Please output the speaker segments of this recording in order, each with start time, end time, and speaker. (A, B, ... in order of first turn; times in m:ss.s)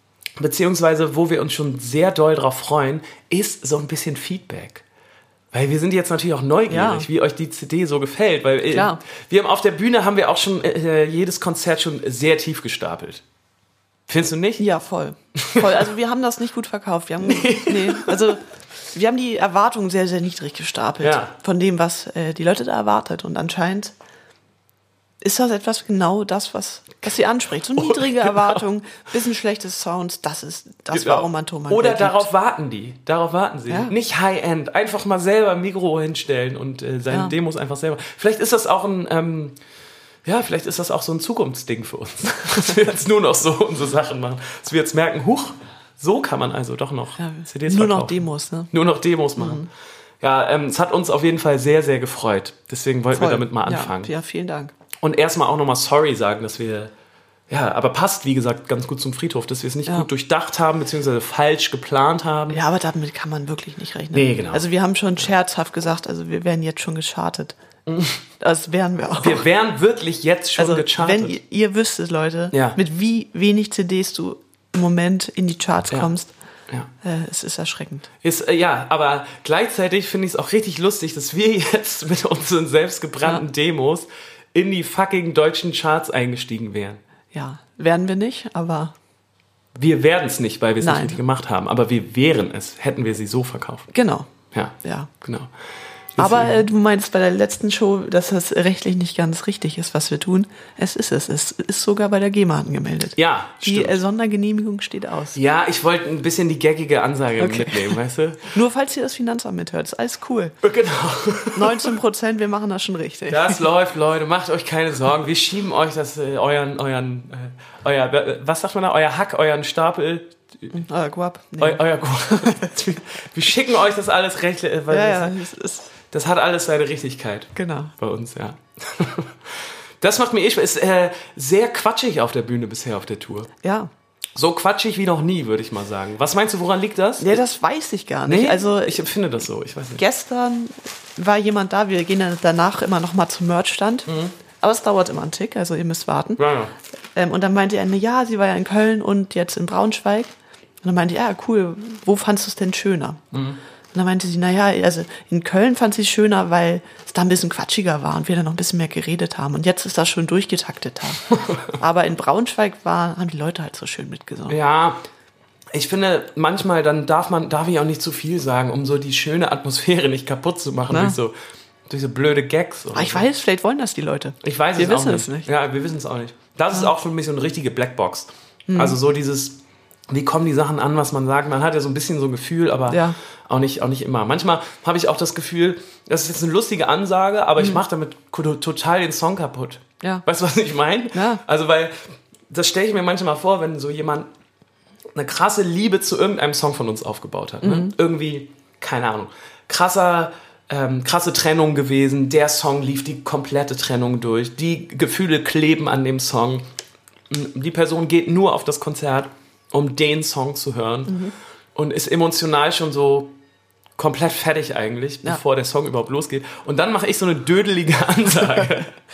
0:00.4-0:04.8 A
0:05.5-0:13.2 A
0:06.7-0:07.1 B
0:08.7-0:09.0 B
0:14.1-0:14.6 A
0:14.6-0:23.9 B
0:15.4-0:15.9 A
0:17.2-0:18.4 A
0:21.0-0:21.3 A
0:25.2-0:32.2 B
0:27.8-0:28.6 A
0:30.9-0:39.6 A
0:40.2-0:49.7 A
0:47.2-0:48.7 B
0:49.4-0:49.7 B
0:50.2-0:54.1 A
0:53.1-0:54.7 B
0:55.0-0:56.9 A
0:57.5-1:02.6 A
1:02.5-1:07.5 B
1:04.1-1:04.7 A
1:07.9-1:08.2 A
1:08.4-1:09.4 B
1:09.2-1:11.4 A
1:10.6-1:16.3 B
1:12.5-1:12.8 A
1:17.0-1:18.1 B
1:18.2-1:27.0 A
1:27.3-1:29.0 B
1:29.8-1:33.9 A
1:30.8-1:31.2 B
1:33.9-1:34.3 B
1:34.5-1:35.5 A
1:34.8-1:35.1 B
1:36.2-1:36.6 A
1:36.2-1:45.4 B
1:43.2-1:44.0 A
1:45.3-1:48.5 A
1:47.4-1:48.0 B
1:48.5-1:50.6 B
1:50.6-1:52.0 A
1:51.5-1:53.6 B
1:53.3-2:00.7 A
2:00.7-2:02.6 B
2:01.6-2:05.4 A
2:04.9-2:05.9 B
2:06.1-2:13.5 A
2:07.5-2:07.9 B
2:13.6-2:13.9 B
2:14.4-2:17.4 A
2:17.2-2:19.0 B
2:18.3-2:20.0 A
2:20.0-2:24.1 B
2:24.1-2:24.4 A
2:24.6-2:26.5 B
2:26.4-2:26.8 A
2:27.2-2:33.2 B
2:33.3-2:33.6 A
2:33.9-2:44.6 B
2:41.3-2:41.6 A
2:44.5-2:45.0 A
2:45.7-2:51.4 A
2:50.9-2:51.2 B
2:51.9-2:53.3 A
2:52.9-2:55.5 B
2:54.4-3:14.3 A
2:58.7-2:59.0 B
3:02.9-3:03.2 B
3:07.6-3:07.8 B
3:11.1-3:11.4 B
3:15.1-3:26.7 A
3:17.6-3:18.0 B
3:27.3-3:31.2 A
3:31.1-3:31.4 B
3:31.8-3:33.4 A
3:34.0-3:38.9 A